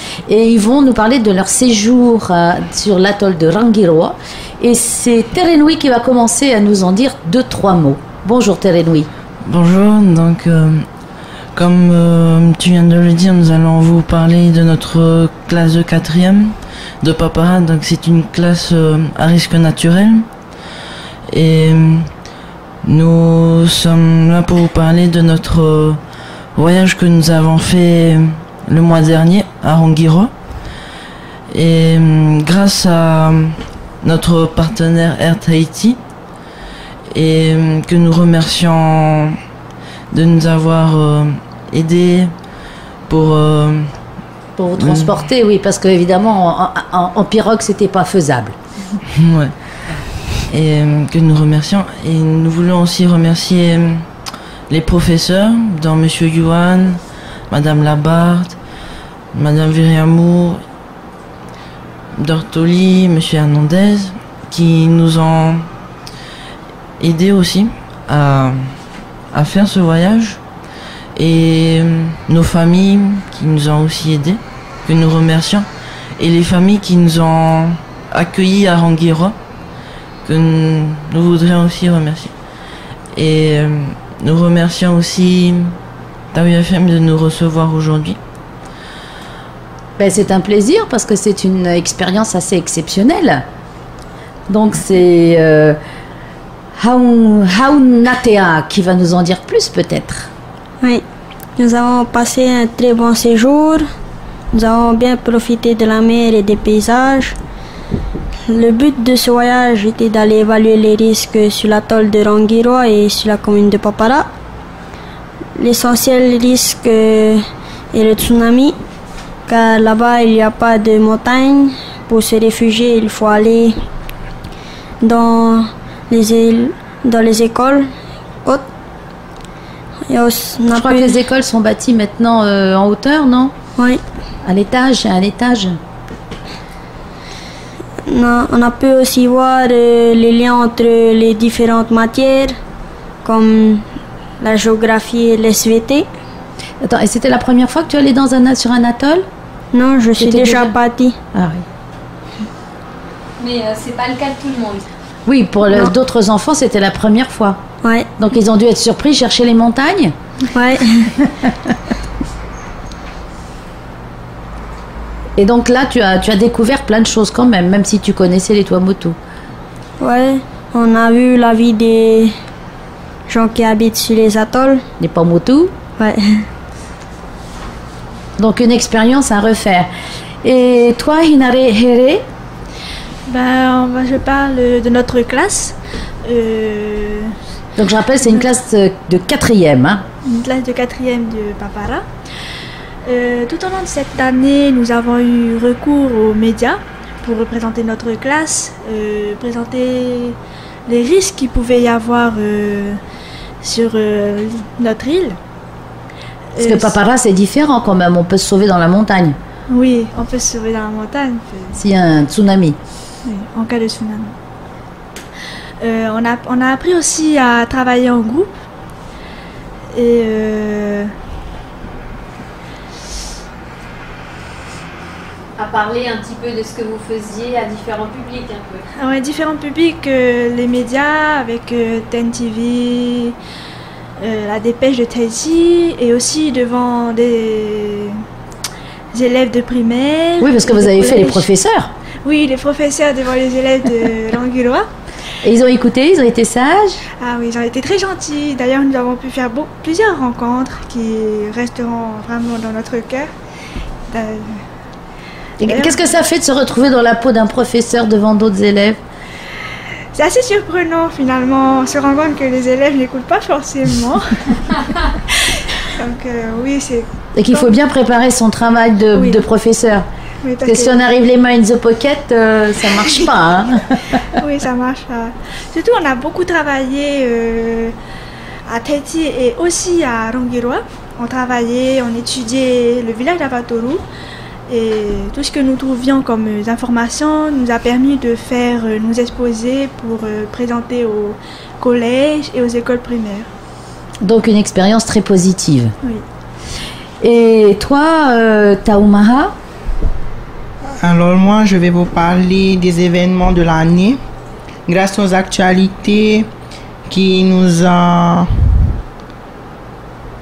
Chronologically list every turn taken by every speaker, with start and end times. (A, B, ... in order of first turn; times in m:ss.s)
0:00.3-0:09.1 A
0:09.4-0:10.8 B
0:11.5-0:20.2 B
0:21.3-0:22.0 B
0:22.8-0:26.0 B
0:26.6-0:30.3 B
0:31.5-0:36.0 B
0:37.1-0:39.3 B
0:40.1-0:42.3 B
0:43.1-0:43.8 B
0:44.6-0:48.6 A
0:44.8-0:45.2 B
0:49.2-0:49.5 B
0:50.5-0:54.0 B
0:54.7-0:58.6 B
0:59.3-1:00.6 B
1:02.2-1:05.6 B
1:07.0-1:08.6 B
1:09.3-1:10.4 B
1:11.2-1:15.7 B
1:16.2-1:19.4 B
1:20.2-1:22.3 B
1:23.1-1:25.7 B
1:26.3-1:28.2 B
1:30.0-1:33.4 A
1:34.5-1:35.8 A
1:36.8-1:40.3 A
1:41.6-1:43.8 C
1:44.5-1:47.4 C
1:48.5-1:54.3 C
1:55.6-1:58.8 C
1:59.5-2:03.8 C
2:05.0-2:07.9 C
2:10.1-2:11.2 C
2:10.7-2:13.5 A
2:13.8-2:14.0 C
2:14.4-2:15.8 A
2:18.0-2:22.5 C
2:23.2-2:23.8 C
2:24.4-2:26.1 C
2:26.8-2:29.2 A
2:29.7-2:31.2 C
2:30.2-2:30.8 A
2:31.3-2:31.6 A
2:33.4-2:34.8 D
2:35.2-2:37.6 A
2:37.8-2:38.1 C
2:38.2-2:40.1 A
2:40.5-2:41.1 C
2:41.2-2:41.7 A
2:45.4-2:49.2 A
2:50.0-2:52.3 C
2:53.3-2:54.8 C
2:55.0-2:55.7 A
2:56.0-2:56.4 C
2:58.4-2:59.9 A
3:00.4-3:02.2 A
3:03.3-3:07.3 E
3:07.8-3:10.0 A
3:10.2-3:12.0 E
3:13.0-3:23.0 E
3:23.6-3:25.4 E
3:26.5-3:27.0 E
3:26.6-3:29.4 A
3:29.7-3:31.7 E
3:31.7-3:32.8 A
3:33.2-3:34.3 E
3:35.8-3:38.6 E
3:39.9-3:41.1 E
3:45.6-3:48.9 D
3:49.0-3:53.4 E
3:54.2-3:58.2 E
3:59.1-4:01.4 E
4:00.4-4:01.9 A
4:02.2-4:04.9 E
4:05.4-4:07.0 A
4:07.2-4:13.3 E
4:14.1-4:14.5 E
4:15.6-4:19.0 A
4:15.7-4:16.1 E
4:20.1-4:24.6 E
4:26.0-4:27.7 E
4:27.3-4:30.0 A
4:30.4-4:31.0 E
4:30.6-4:34.2 A
4:34.5-4:37.9 E
4:38.7-4:44.0 E
4:44.7-4:53.5 E
4:54.2-4:55.9 A
4:57.2-4:59.5 A
5:01.0-5:04.2 F
5:04.9-5:06.5 F
5:07.1-5:08.5 F